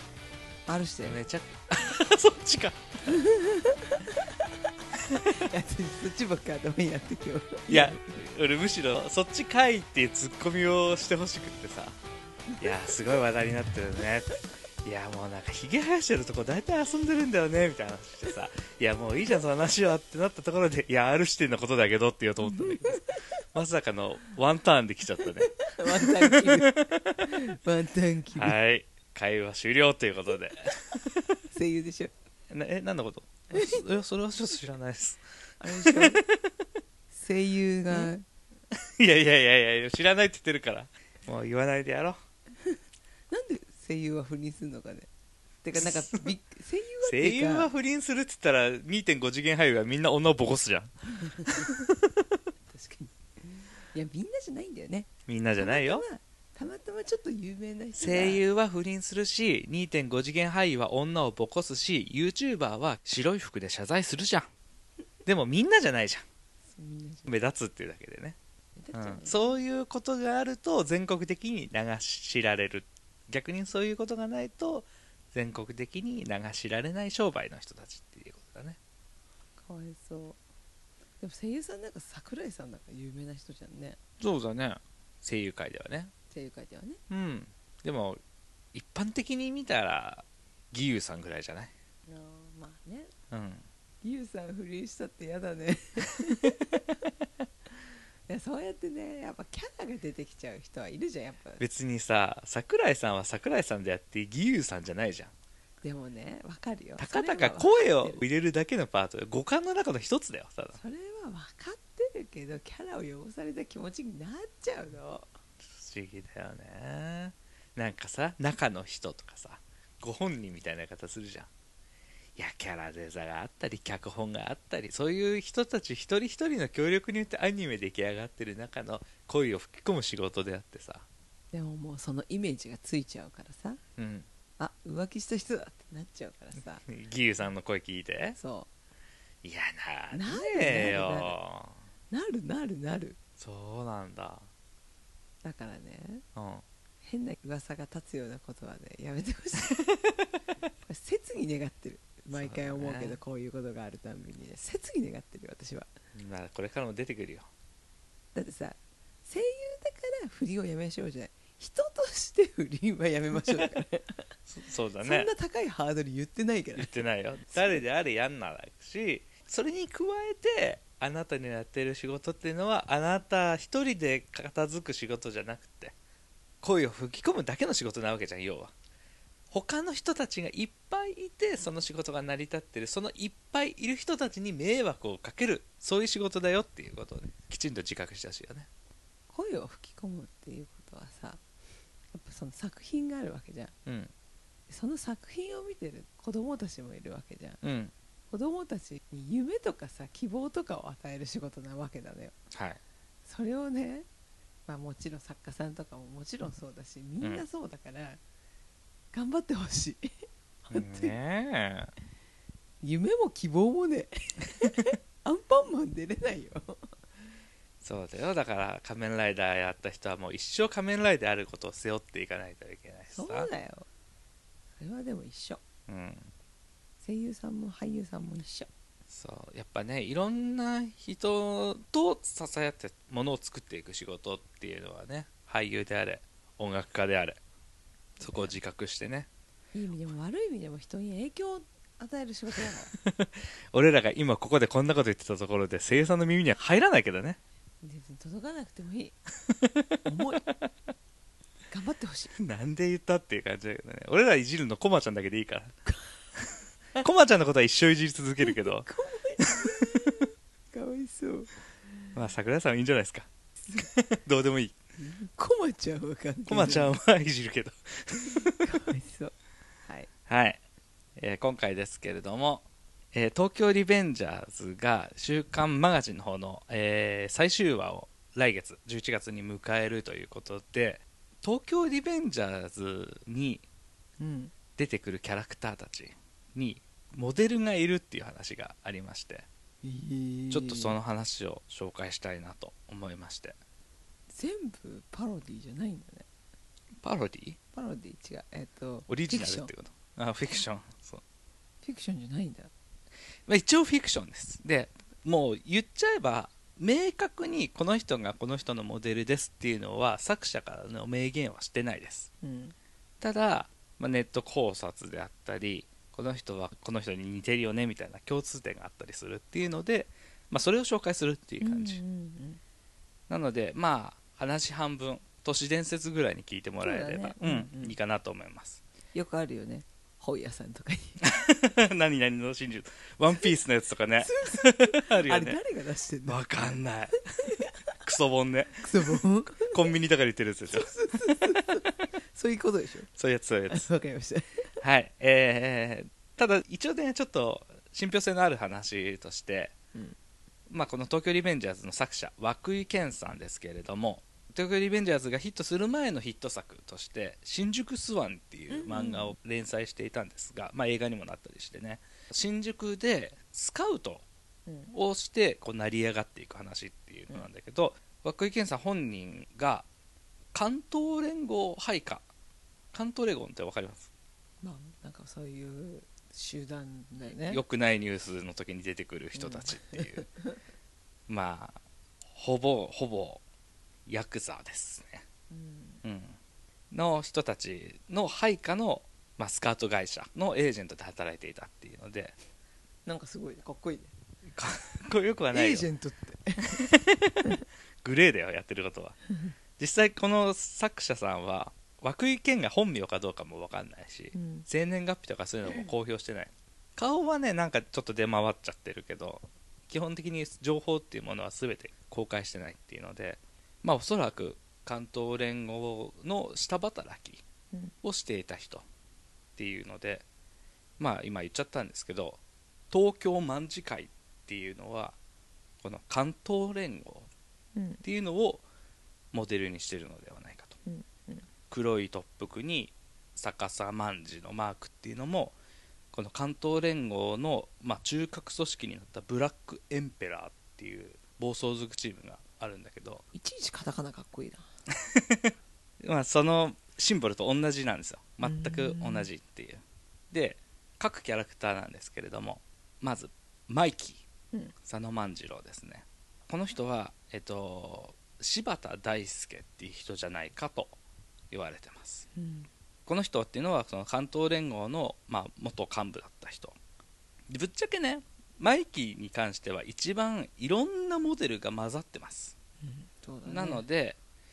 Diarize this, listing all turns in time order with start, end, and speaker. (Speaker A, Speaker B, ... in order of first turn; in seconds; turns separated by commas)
Speaker A: 0.7-1.2, Speaker B: 1.1-3.2, Speaker A: 3.1-8.2, Speaker B: 5.2-5.5, Speaker B: 7.7-12.0, Speaker A: 12.5-13.1, Speaker B: 12.6-27.3, Speaker A: 22.4-23.3, Speaker A: 25.4-28.6, Speaker B: 28.4-31.4, Speaker A: 31.5-32.1, Speaker B: 32.5-36.5, Speaker A: 33.5-33.8, Speaker A: 35.6-36.2, Speaker A: 37.1-38.3, Speaker B: 38.7-42.2, Speaker A: 43.3-45.1, Speaker A: 45.6-47.7, Speaker B: 45.8-46.2, Speaker B: 47.0-50.9, Speaker A: 51.2-51.9, Speaker B: 51.4-52.4, Speaker A: 52.7-58.4, Speaker B: 55.3-56.0, Speaker B: 58.0-64.5, Speaker B: 65.2-66.2, Speaker A: 66.8-67.3, Speaker B: 67.3-68.4, Speaker A: 68.8-69.5, Speaker B: 68.9-78.8, Speaker A: 79.6-80.4, Speaker A: 81.2-84.0, Speaker B: 84.2-86.1, Speaker A: 86.3-87.0, Speaker B: 87.1-88.2, Speaker B: 88.7-91.7, Speaker A: 92.1-93.1, Speaker B: 93.3-93.6, Speaker A: 94.0-97.1, Speaker A: 98.3-101.6, Speaker B: 101.6-105.3, Speaker A: 105.8-108.2, Speaker B: 107.0-110.8, Speaker A: 110.7-115.3, Speaker B: 115.7-121.5, Speaker B: 122.4-131.1, Speaker A: 131.5-133.8, Speaker B: 134.0-134.3, Speaker A: 134.6-136.8, Speaker B: 136.8-138.4, Speaker A: 138.4-138.7, Speaker B: 139.4-141.8, Speaker A: 140.1-141.4, Speaker A: 142.1-143.2, Speaker B: 143.4-144.5, Speaker A: 145.4-146.2, Speaker B: 146.3-146.7, Speaker A: 147.0-149.8, Speaker B: 149.9-150.2, Speaker A: 150.8-155.9, Speaker B: 152.3-153.2, Speaker B: 156.2-157.5, Speaker A: 158.3-164.3, Speaker B: 164.5-165.3, Speaker A: 165.0-167.8, Speaker B: 166.8-175.9, Speaker B: 176.6-178.7, Speaker B: 179.5-188.7, Speaker A: 189.3-191.4, Speaker A: 192.1-193.8, Speaker B: 193.9-194.1, Speaker A: 194.7-197.6, Speaker B: 197.6-197.9, Speaker A: 198.3-202.3, Speaker B: 202.5-202.8, Speaker A: 203.3-204.1, Speaker A: 204.7-208.2, Speaker A: 209.1-211.2, Speaker B: 210.7-211.9, Speaker A: 212.8-217.0, Speaker B: 217.8-223.5, Speaker A: 223.2-223.9, Speaker A: 224.8-225.6, Speaker B: 225.9-226.3, Speaker A: 227.0-228.7, Speaker B: 229.1-237.4, Speaker A: 238.2-238.6, Speaker B: 238.2-239.3, Speaker A: 239.7-242.9, Speaker B: 242.9-247.4, Speaker A: 247.8-249.2, Speaker B: 249.5-250.7, Speaker A: 250.1-250.5, Speaker A: 251.7-252.3, Speaker B: 252.3-255.8, Speaker B: 256.9-258.9, Speaker A: 258.4-261.6, Speaker B: 259.4-260.1, Speaker B: 262.1-264.8, Speaker A: 265.0-267.0, Speaker B: 266.5-268.6, Speaker A: 268.3-269.3, Speaker A: 269.9-270.1, Speaker B: 270.3-270.6, Speaker B: 271.2-283.6, Speaker A: 284.2-284.5, Speaker B: 284.8-289.5, Speaker A: 289.8-291.0, Speaker B: 290.5-293.6, Speaker A: 294.3-296.3, Speaker B: 297.0-297.6, Speaker A: 297.7-299.7, Speaker B: 299.1-301.2, Speaker A: 301.8-302.7, Speaker B: 303.5-312.3, Speaker A: 312.4-312.8, Speaker B: 313.2-322.0, Speaker A: 321.6-322.6, Speaker B: 323.3-328.8, Speaker A: 326.8-328.0, Speaker A: 329.1-331.2, Speaker B: 331.2-335.6, Speaker A: 334.2-337.9, Speaker B: 336.3-341.6, Speaker A: 338.8-339.9, Speaker A: 340.7-343.1, Speaker B: 343.2-343.9, Speaker A: 343.7-344.7, Speaker B: 344.8-349.7, Speaker B: 350.7-364.2, Speaker A: 358.7-359.3, Speaker A: 364.7-364.9, Speaker B: 364.9-369.9, Speaker B: 370.5-372.3, Speaker B: 372.9-374.1, Speaker A: 374.6-377.6, Speaker B: 377.4-380.3, Speaker A: 379.4-380.6, Speaker B: 381.3-381.8, Speaker B: 382.3-383.4, Speaker B: 384.1-385.2, Speaker A: 385.5-386.0, Speaker B: 386.0-386.4, Speaker B: 386.9-392.4, Speaker A: 393.1-394.1, Speaker B: 394.5-395.9, Speaker A: 395.5-396.9, Speaker B: 396.8-399.2, Speaker B: 399.8-417.4, Speaker A: 404.3-404.7, Speaker A: 405.6-405.9, Speaker B: 418.0-418.9, Speaker B: 419.6-420.2, Speaker B: 421.0-422.4, Speaker B: 422.9-425.2, Speaker B: 425.8-427.3, Speaker A: 427.8-428.0, Speaker B: 428.0-428.6, Speaker B: 429.3-430.8, Speaker A: 430.9-431.5, Speaker B: 431.7-435.6, Speaker B: 436.1-443.2, Speaker A: 443.3-444.7, Speaker B: 444.9-454.2, Speaker A: 448.4-449.3, Speaker B: 454.8-460.9, Speaker B: 461.5-462.3, Speaker A: 462.4-462.7, Speaker B: 463.1-466.8, Speaker B: 467.5-472.6, Speaker A: 472.8-473.9, Speaker B: 473.5-474.2